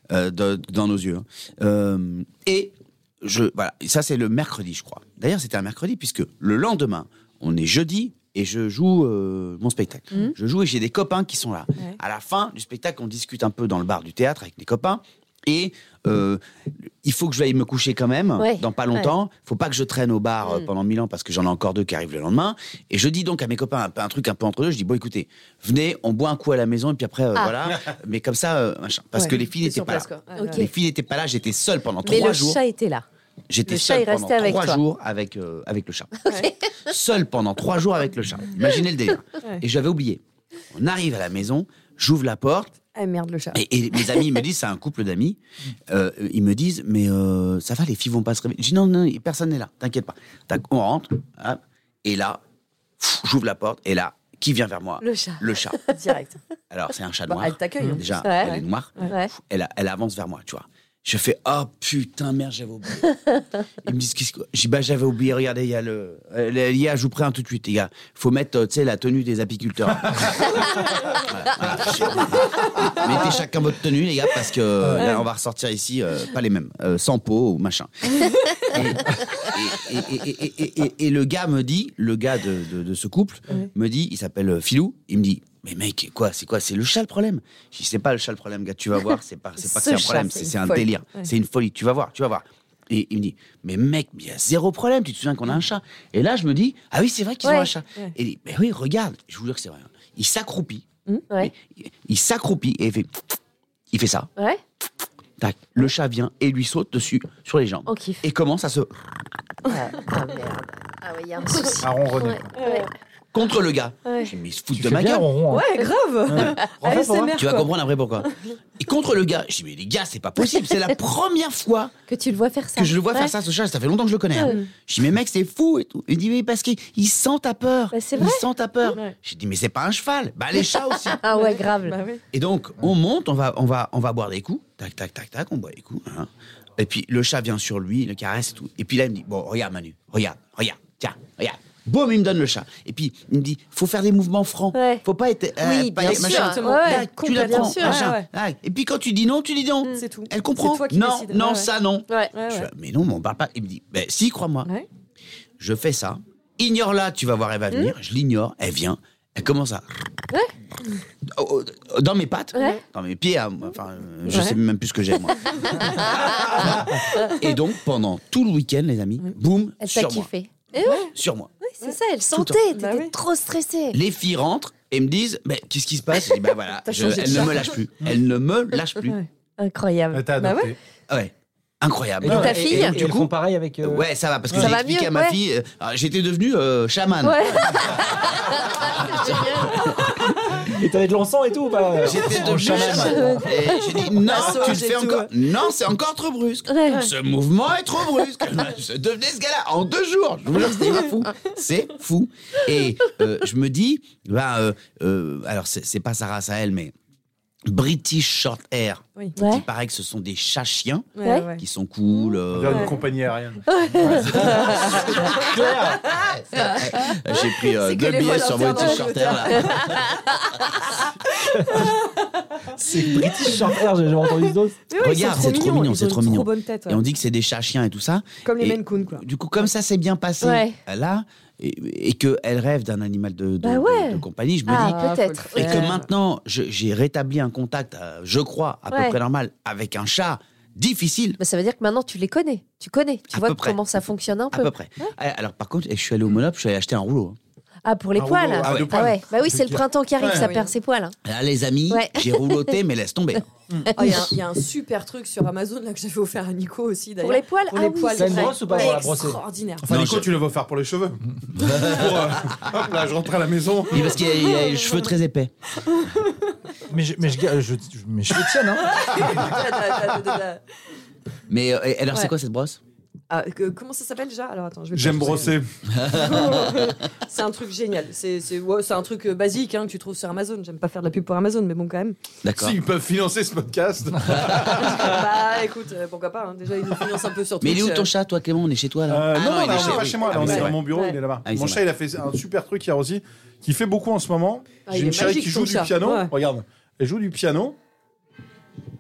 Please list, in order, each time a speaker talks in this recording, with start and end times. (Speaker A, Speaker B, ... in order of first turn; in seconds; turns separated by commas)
Speaker A: 0.1-32.6, Speaker B: 18.4-19.1, Speaker C: 29.2-30.7, Speaker B: 29.7-30.7, Speaker B: 32.0-33.0, Speaker A: 33.5-36.1, Speaker B: 33.7-34.8, Speaker B: 36.3-36.5, Speaker A: 36.9-40.2, Speaker A: 40.7-42.7, Speaker C: 43.0-43.6, Speaker A: 43.5-52.4, Speaker A: 53.0-55.8, Speaker B: 55.0-56.0, Speaker C: 55.9-56.4, Speaker A: 56.7-63.1, Speaker C: 57.3-59.1, Speaker B: 58.2-59.3, Speaker A: 63.8-103.1, Speaker C: 72.8-73.2, Speaker C: 75.0-75.2, Speaker B: 89.7-90.2, Speaker C: 89.8-91.3, Speaker B: 97.4-97.7, Speaker A: 103.9-104.3, Speaker A: 105.4-108.9, Speaker B: 107.9-108.2, Speaker B: 109.7-112.9, Speaker C: 111.5-111.8, Speaker D: 111.8-112.5, Speaker C: 112.5-112.9, Speaker A: 113.3-115.3, Speaker B: 114.0-114.3, Speaker E: 114.7-115.7, Speaker C: 115.5-117.7, Speaker B: 115.8-116.7, Speaker E: 116.3-117.4, Speaker A: 117.4-121.9, Speaker C: 118.2-118.5, Speaker B: 122.1-123.3, Speaker A: 122.8-131.2, Speaker B: 127.9-128.4, Speaker B: 131.1-132.0, Speaker C: 131.3-132.2, Speaker A: 132.3-154.7, Speaker B: 144.7-145.0, Speaker B: 145.6-148.1, Speaker C: 146.0-148.3, Speaker C: 150.0-151.7, Speaker C: 152.3-152.7, Speaker A: 155.6-159.9, Speaker A: 161.2-170.3, Speaker B: 162.6-162.8, Speaker C: 164.3-164.6, Speaker B: 166.1-167.3, Speaker B: 169.8-171.1, Speaker C: 170.8-171.1, Speaker A: 171.1-171.5, Speaker B: 171.6-174.0, Speaker A: 172.3-172.6, Speaker C: 172.7-173.1, Speaker A: 173.9-179.2, Speaker C: 176.9-177.8, Speaker B: 176.9-177.4, Speaker B: 179.6-180.3, Speaker D: 180.1-180.8, Speaker C: 180.4-180.8, Speaker A: 181.1-190.1, Speaker E: 182.2-184.1, Speaker B: 182.2-183.0, Speaker B: 184.5-185.4, Speaker B: 187.2-190.1, Speaker E: 190.6-193.4, Speaker A: 192.0-206.9, Speaker B: 192.8-194.1, Speaker C: 192.8-193.1, Speaker C: 193.9-195.3, Speaker B: 196.7-197.1, Speaker A: 207.7-212.9, Speaker B: 209.4-209.7, Speaker C: 211.2-211.6, Speaker D: 212.5-213.6, Speaker C: 212.7-212.9, Speaker B: 213.7-215.0, Speaker A: 214.1-215.2, Speaker E: 214.1-216.1, Speaker C: 214.5-220.0, Speaker A: 216.1-220.1, Speaker B: 216.6-217.2, Speaker B: 218.7-220.6, Speaker E: 221.6-221.9, Speaker C: 221.6-223.7, Speaker E: 222.7-224.9, Speaker C: 224.9-227.0, Speaker A: 225.0-235.0, Speaker C: 228.4-229.2, Speaker B: 230.4-230.8, Speaker B: 233.6-235.9, Speaker C: 234.7-236.1, Speaker A: 235.5-241.4, Speaker B: 238.9-239.2, Speaker B: 241.4-244.7, Speaker A: 243.3-243.8, Speaker A: 244.5-247.4, Speaker B: 247.8-251.1, Speaker D: 248.2-249.2, Speaker A: 248.6-248.9, Speaker E: 249.5-249.8, Speaker D: 250.2-250.5, Speaker C: 250.2-250.7, Speaker A: 251.2-253.4, Speaker B: 251.9-252.7, Speaker D: 253.7-253.9, Speaker B: 253.9-254.3, Speaker C: 254.0-259.9, Speaker B: 257.2-259.0, Speaker E: 258.2-259.4, Speaker D: 259.8-264.1, Speaker A: 259.9-260.3, Speaker A: 261.6-262.5, Speaker A: 263.9-265.5, Speaker C: 264.3-265.1, Speaker C: 265.8-266.6, Speaker E: 266.9-269.1, Speaker C: 268.8-270.6, Speaker D: 269.2-269.6, Speaker A: 271.5-272.8, Speaker C: 273.3-275.6, Speaker D: 274.9-275.7, Speaker A: 275.9-276.7, Speaker C: 276.1-282.2, Speaker A: 282.4-282.8, Speaker D: 282.6-285.3, Speaker A: 284.3-284.6, Speaker C: 284.7-288.1, Speaker A: 287.6-290.8, Speaker D: 289.1-297.8, Speaker C: 289.6-291.2, Speaker A: 291.5-291.8, Speaker C: 294.9-296.3